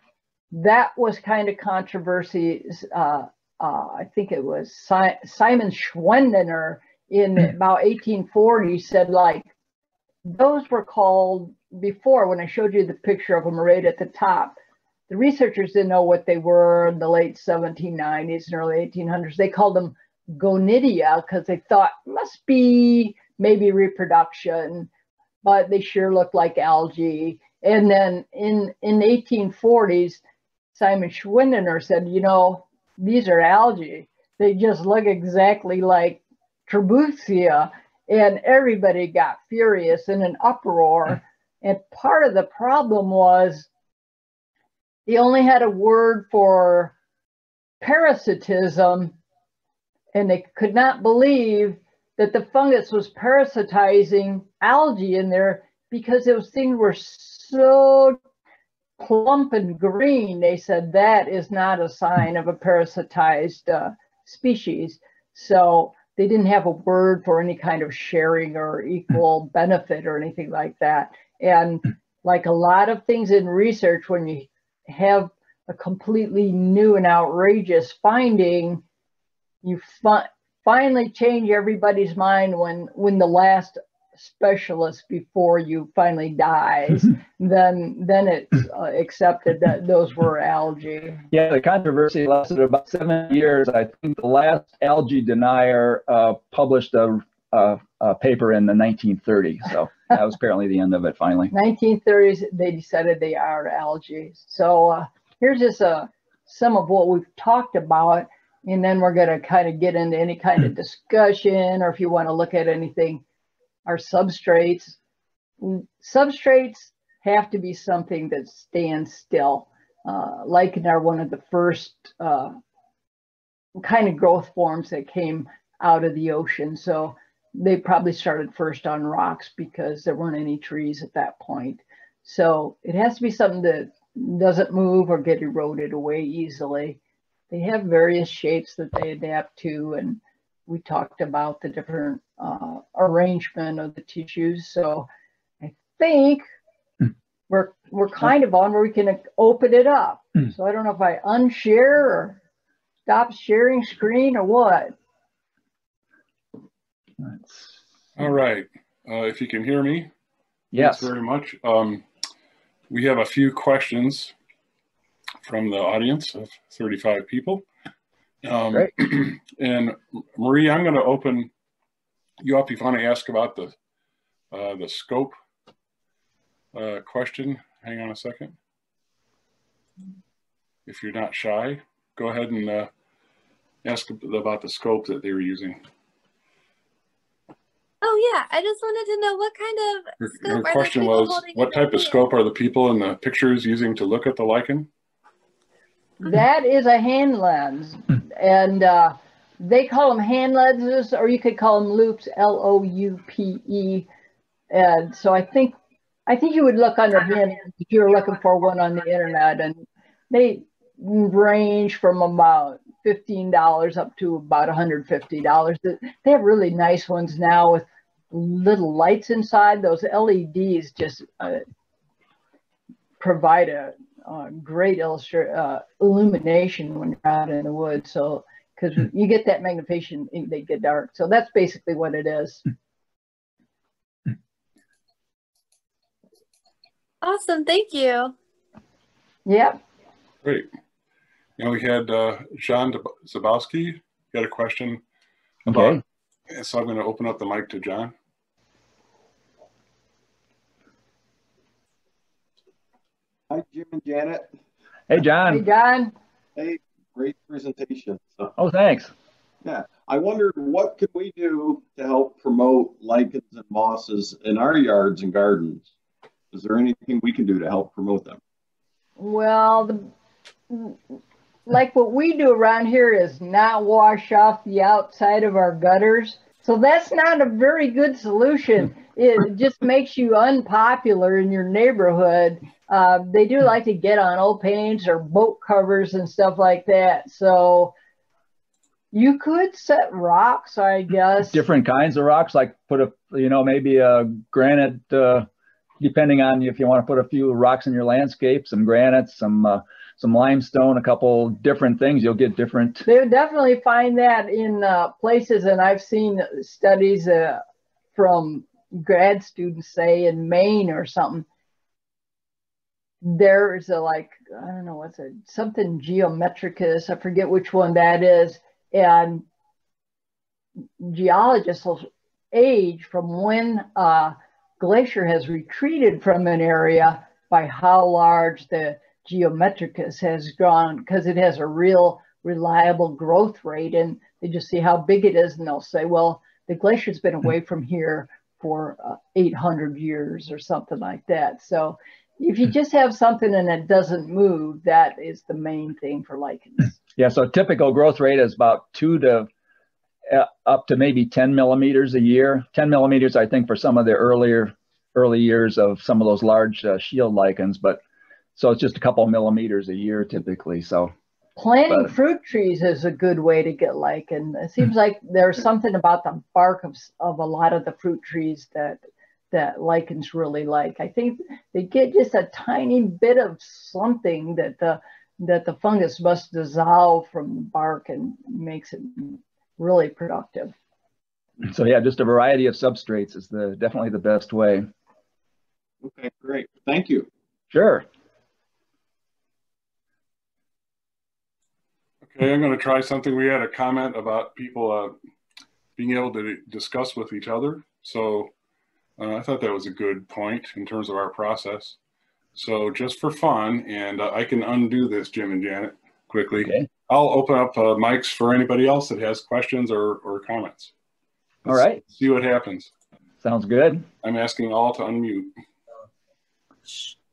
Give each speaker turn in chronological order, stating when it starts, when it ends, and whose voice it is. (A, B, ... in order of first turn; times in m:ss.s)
0:00.5-0:09.5 A
0:10.2-0:14.6 A
0:15.1-0:24.9 A
0:25.4-0:30.2 A
0:30.7-0:43.7 A
0:45.1-0:46.9 A
0:47.8-0:49.2 A
0:50.2-0:58.2 A
0:59.0-1:18.8 A
1:19.6-1:31.2 A
1:31.3-1:41.5 B
1:41.5-1:53.2 A
1:53.9-1:55.0 A
1:55.6-2:02.5 A
2:03.8-2:17.0 A
2:17.5-2:25.1 A
2:25.6-2:26.4 A
2:27.5-2:32.4 A
2:33.1-2:34.9 A
2:37.2-2:37.8 B
2:38.2-2:40.1 C
2:40.7-2:41.1 B
2:40.8-2:42.0 C
2:42.9-2:44.3 C
2:45.4-2:47.6 C
2:48.4-2:51.5 C
2:52.4-2:53.7 C
2:54.5-2:55.4 C
2:56.7-2:58.6 C
3:00.9-3:02.9 C
3:03.8-3:05.8 C
3:08.0-3:12.2 D
3:10.2-3:14.9 C
3:16.2-3:24.1 A
3:24.7-3:25.8 A
3:26.3-3:41.6 A
3:43.2-3:52.6 A
3:57.2-3:58.3 D
3:59.5-3:59.8 A
4:01.6-4:05.0 C
4:05.7-4:06.0 B
4:05.7-4:08.1 C
4:13.5-4:14.5 E
4:15.1-4:15.6 B
4:15.5-4:16.1 A
4:16.6-4:18.5 E
4:18.6-4:19.1 B
4:19.6-4:25.9 E
4:26.5-4:28.4 E
4:29.2-4:30.1 A
4:30.7-4:31.0 A
4:31.7-4:47.9 A
4:49.1-4:51.6 A
4:51.5-4:55.5 B
4:56.0-5:03.1 B
5:03.0-5:07.6 A
5:08.2-5:11.5 A
5:13.2-5:19.4 A
5:21.0-5:47.0 A
5:47.2-5:49.5 B
5:50.3-5:58.0 B
5:58.6-6:01.1 B
6:01.6-6:09.0 A
6:09.5-6:20.7 A
6:21.6-6:24.9 B
6:26.0-6:27.3 E
6:27.7-6:28.0 B
6:32.2-6:35.2 C
6:36.0-6:38.5 C
6:39.2-6:42.0 C
6:42.6-6:50.9 C
6:46.5-6:46.9 B
6:51.6-6:52.0 B
6:51.7-6:52.9 C
6:53.4-6:54.1 B
6:54.2-6:55.5 C